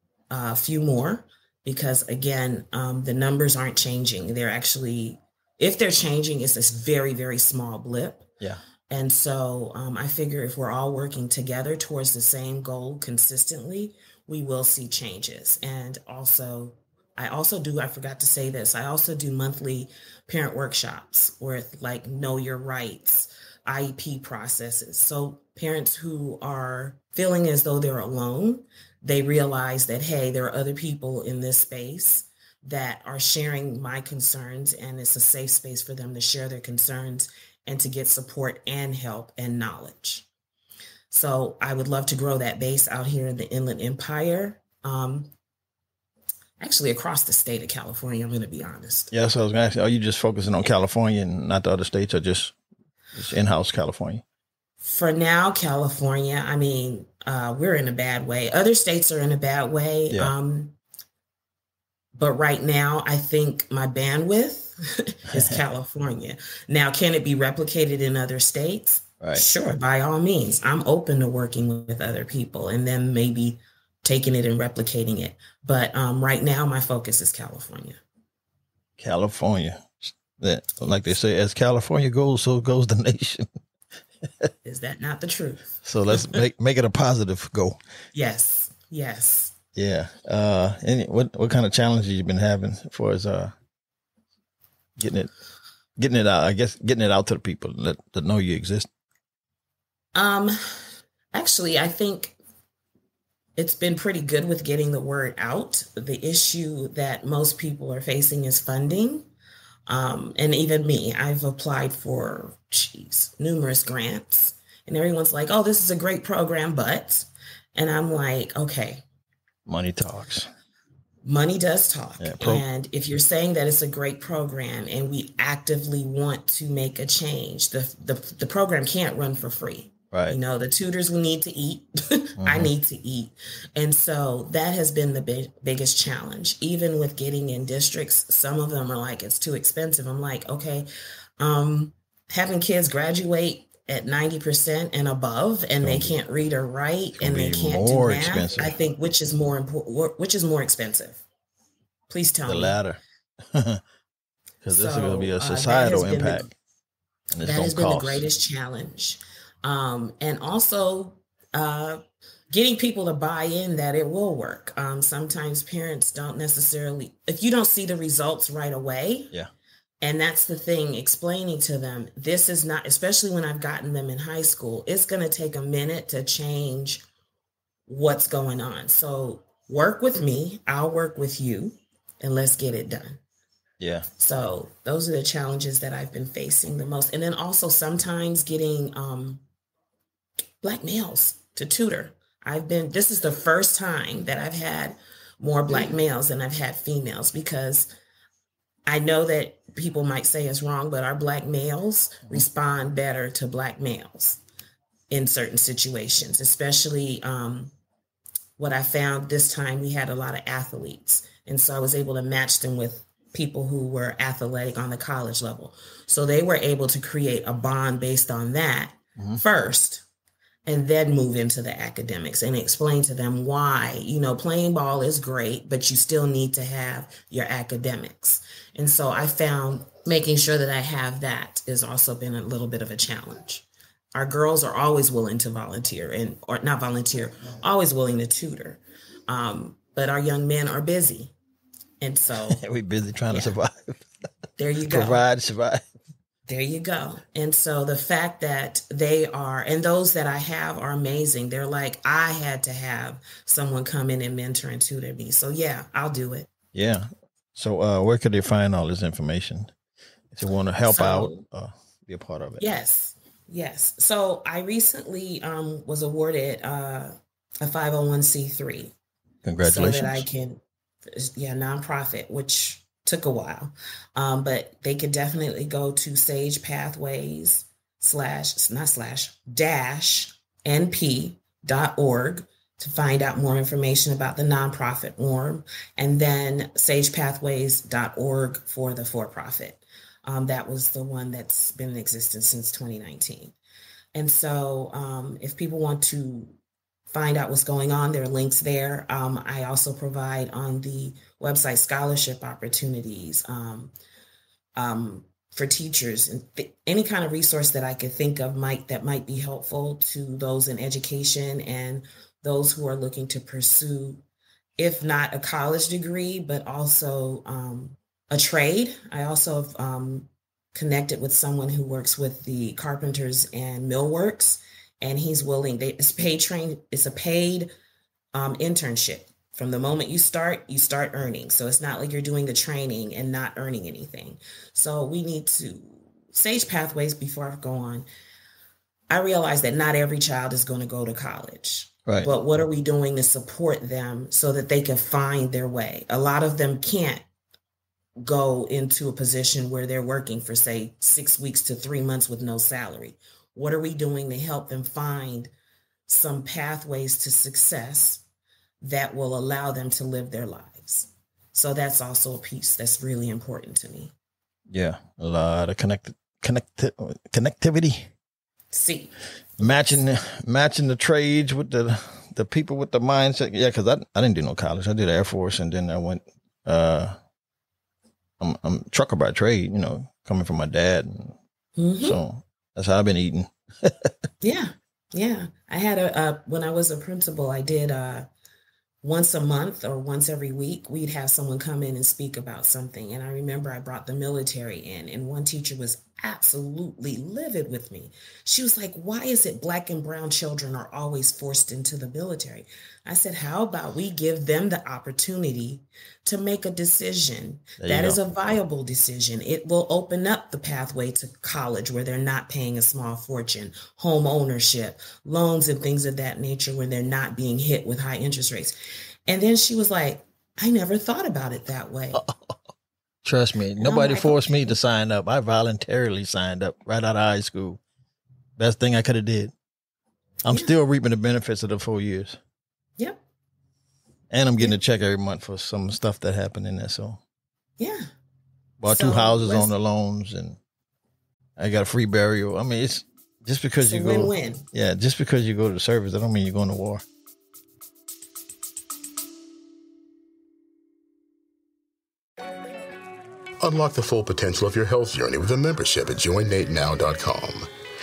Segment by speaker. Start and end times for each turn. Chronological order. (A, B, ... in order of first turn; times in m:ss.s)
0:00.3-0:08.3 A
0:08.9-0:40.3 A
0:41.1-0:45.3 A
0:46.6-0:49.1 A
0:49.1-0:52.5 B
0:53.1-0:54.2 B
0:54.8-1:00.8 A
1:02.1-1:18.0 A
1:05.3-1:05.6 B
1:19.0-1:23.5 B
1:24.2-1:24.5 B
1:24.6-1:26.4 A
1:25.8-1:27.8 B
1:28.1-1:29.5 A
1:29.7-1:33.5 B
1:35.0-1:35.3 B
1:36.0-1:38.9 B
1:40.1-1:40.6 A
1:41.3-1:42.4 A
1:43.6-1:49.3 A
1:49.9-1:59.0 A
1:59.6-2:00.5 B
2:01.2-2:20.9 A
2:02.2-2:02.6 B
2:10.1-2:10.4 B
2:12.4-2:12.7 B
2:21.4-2:31.2 A
2:25.8-2:26.2 B
2:27.2-2:28.7 B
2:32.1-2:32.8 A
2:32.4-2:33.8 B
2:34.6-2:36.5 B
2:34.6-2:36.5 A
2:37.3-2:38.2 B
2:37.4-2:49.3 A
2:50.0-2:57.0 A
2:57.9-3:03.2 A
3:03.8-3:04.1 B
3:04.2-3:09.4 A
3:10.6-3:17.9 A
3:18.8-3:24.4 A
3:25.1-3:27.7 A
3:28.6-3:40.0 A
3:40.6-4:01.3 A
4:02.0-4:02.6 A
4:02.5-4:04.0 B
4:03.3-4:03.6 A
4:04.6-4:05.2 A
4:04.9-4:05.8 B
4:06.5-4:16.5 A
4:16.7-4:19.7 B
4:20.3-4:22.6 B
4:20.9-4:21.4 A
4:22.6-4:28.9 A
4:29.4-4:30.3 B
4:29.6-4:53.5 A
4:54.1-4:56.6 A
4:57.1-5:03.9 A
5:04.8-5:14.2 A
5:14.8-5:27.7 A
5:28.3-5:38.1 A
5:39.1-5:47.2 A
5:42.0-5:42.3 B
5:48.2-5:55.5 A
5:56.1-5:58.2 A
5:58.8-6:04.1 A
6:04.7-6:08.1 B
6:08.7-6:09.1 A
6:09.6-6:17.2 B
6:18.4-6:21.4 B
6:21.8-6:22.2 A
6:22.0-6:24.1 B
6:24.4-6:28.3 A
6:29.0-6:58.7 A
6:47.8-6:48.2 B
6:59.3-7:02.2 A
7:02.1-7:02.6 B
7:03.2-7:07.8 B
7:03.8-7:04.7 A
7:08.6-7:09.5 B
7:10.4-7:12.4 B
7:14.3-7:17.2 B
7:17.8-7:18.1 A
7:18.8-7:20.6 B
7:18.9-7:19.7 A
7:21.6-7:27.0 B
7:23.8-7:24.6 A
7:33.6-7:37.7 C